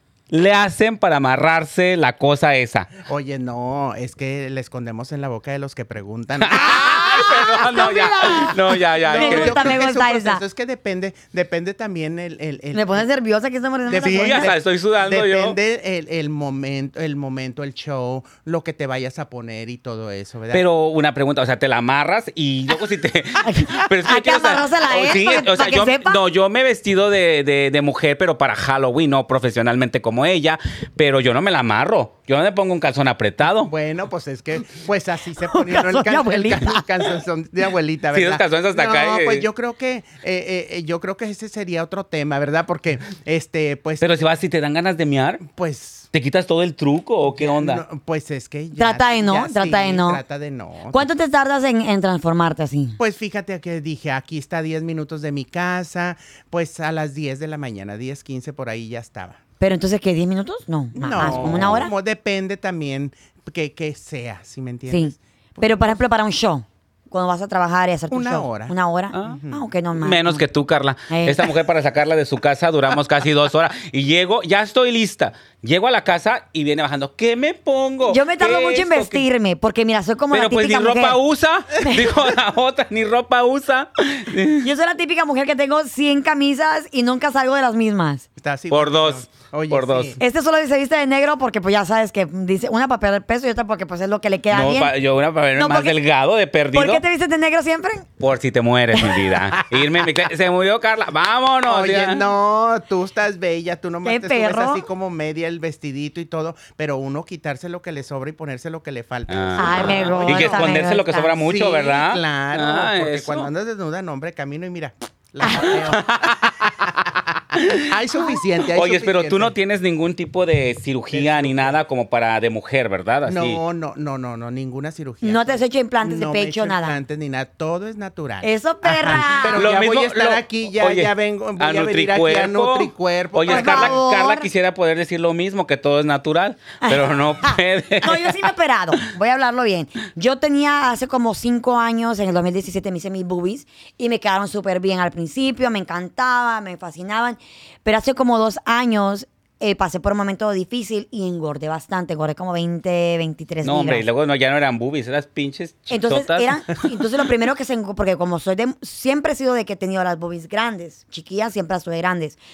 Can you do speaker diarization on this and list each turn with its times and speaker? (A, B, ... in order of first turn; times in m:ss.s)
0:00.3-0:02.9 A
0:03.0-0:07.9 B
0:06.4-0:09.8 A
0:06.6-0:10.4 C
0:09.0-0:13.1 B
0:12.7-0:14.5 C
0:13.9-0:20.7 B
0:14.0-0:15.6 A
0:20.5-0:33.7 A
0:23.4-0:26.2 C
0:33.6-0:44.1 B
0:35.5-0:36.8 C
0:38.1-0:39.5 A
0:44.0-0:45.5 A
0:45.5-0:46.1 B
0:46.1-0:47.8 A
0:47.3-0:51.1 B
0:48.8-0:50.2 C
0:50.9-0:53.0 C
0:53.0-0:59.4 B
0:59.6-1:01.9 C
1:01.0-1:06.0 B
1:01.2-1:01.9 A
1:04.9-1:10.4 C
1:08.1-1:09.7 B
1:09.1-1:09.4 A
1:10.0-1:19.2 A
1:11.1-1:11.5 C
1:18.1-1:21.2 C
1:20.3-1:24.7 A
1:24.6-1:28.2 C
1:28.4-1:30.2 B
1:28.7-1:30.2 A
1:30.2-1:34.9 C
1:34.5-1:37.0 A
1:35.6-1:36.0 C
1:36.7-1:38.1 C
1:38.2-1:42.2 A
1:41.6-1:50.8 B
1:44.0-1:44.9 C
1:49.3-1:53.5 A
1:49.6-1:51.3 C
1:51.4-1:59.6 B
1:55.4-1:55.7 C
1:55.6-1:56.6 A
1:58.7-2:03.6 A
2:01.1-2:01.8 B
2:03.2-2:14.0 B
2:05.2-2:07.0 C
2:08.4-2:09.6 C
2:09.1-2:18.4 A
2:13.5-2:14.5 C
2:16.8-2:34.0 C
2:33.6-2:36.8 A
2:35.9-2:42.4 C